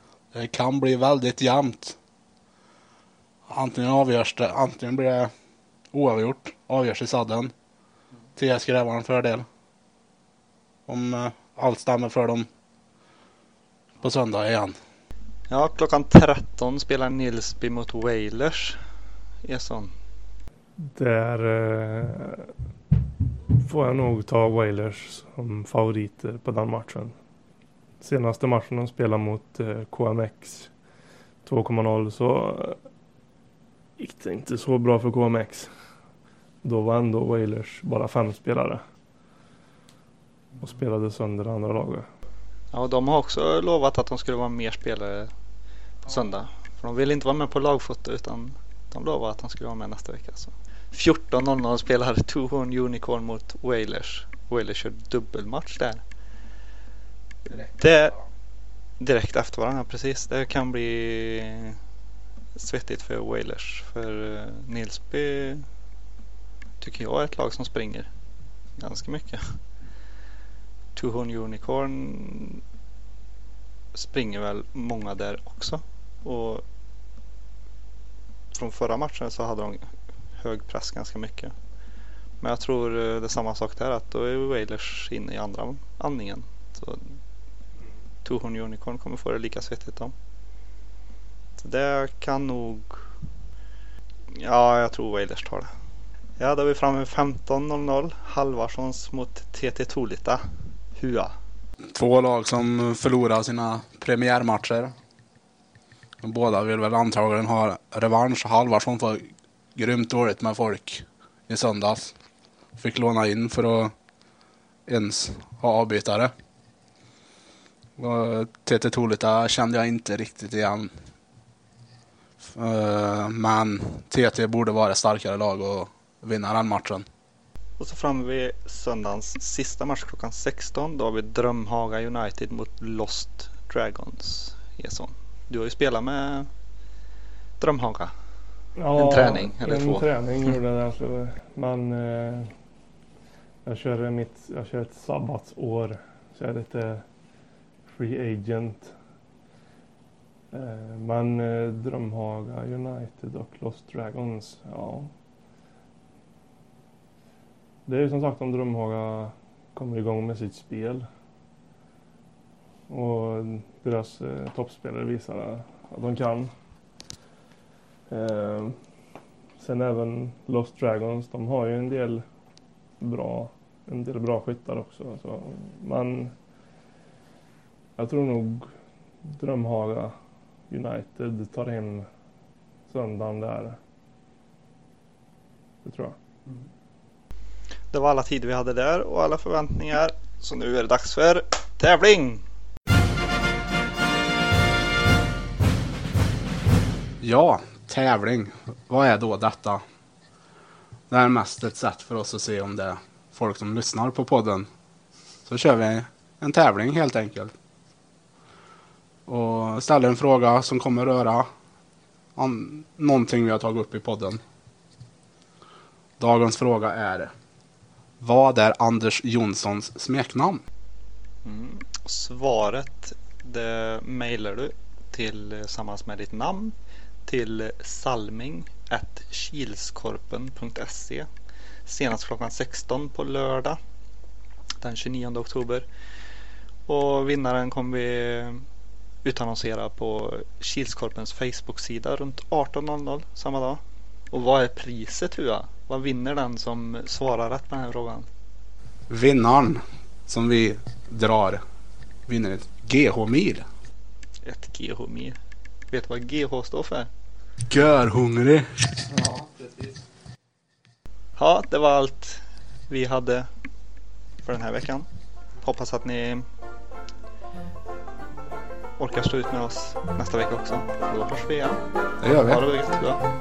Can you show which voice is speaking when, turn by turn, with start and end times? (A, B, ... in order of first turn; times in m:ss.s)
0:00.3-0:02.0 A
0:03.5-0:05.3 A
0:05.9-0:07.5 A
0:08.4-0:09.5 A
0:10.9-0:12.5 A
0:14.0-0:14.7 A
0:15.5-0:18.8 B
0:19.4-0:19.9 B
0:20.9-0:22.5 C
0:23.5-0:27.1 C
0:28.0-0:30.7 C
0:31.4-0:32.8 C
0:34.0-0:35.7 C
0:36.6-0:38.8 C
0:40.6-0:42.1 C
0:42.7-0:45.3 B
0:46.0-0:56.0 B
0:57.5-0:58.2 B
0:59.0-1:01.8 B
1:02.5-1:05.6 B
1:06.8-1:08.1 B
1:08.8-1:09.6 B
1:11.0-1:12.6 B
1:13.9-1:16.6 B
1:18.5-1:21.5 B
1:22.4-1:27.2 B
1:28.2-1:30.1 B
1:31.6-1:33.0 B
1:34.3-1:35.7 B
1:36.4-1:40.4 B
1:40.9-1:41.4 B
1:41.9-1:44.9 A
1:46.2-1:52.1 A
1:52.8-1:53.9 A
1:54.9-1:56.3 A
1:58.0-2:00.9 A
2:02.4-2:07.0 A
2:07.8-2:16.5 B
2:17.6-2:18.1 B
2:18.8-2:22.5 C
2:18.9-2:20.5 B
2:23.6-2:27.0 C
2:27.8-2:28.9 C
2:30.5-2:35.1 C
2:37.8-2:41.1 C
2:42.9-2:46.5 C
2:48.1-2:48.8 C
2:49.6-2:52.2 C
2:53.0-2:56.3 C
2:58.0-2:58.7 C
2:59.4-3:00.1 C
3:00.7-3:02.1 C
3:02.9-3:03.8 C
3:05.8-3:06.2 C
3:07.9-3:12.4 B
3:17.2-3:19.8 A
3:21.1-3:24.7 A
3:25.4-3:27.5 A
3:29.2-3:31.5 A
3:32.4-3:34.4 A
3:36.2-3:37.3 A
3:38.2-3:40.6 A
3:41.4-3:51.3 B
3:51.8-3:53.8 B
3:54.8-3:55.8 B
3:56.9-3:58.6 B
3:59.2-4:08.3 B
4:09.1-4:11.6 A
4:12.3-4:13.6 A
4:14.4-4:15.4 B
4:15.9-4:17.1 B
4:17.7-4:19.0 A
4:19.1-4:19.9 B
4:21.4-4:23.5 B
4:24.4-4:25.1 B
4:25.6-4:26.4 B
4:29.0-4:33.2 B
4:32.2-4:32.6 A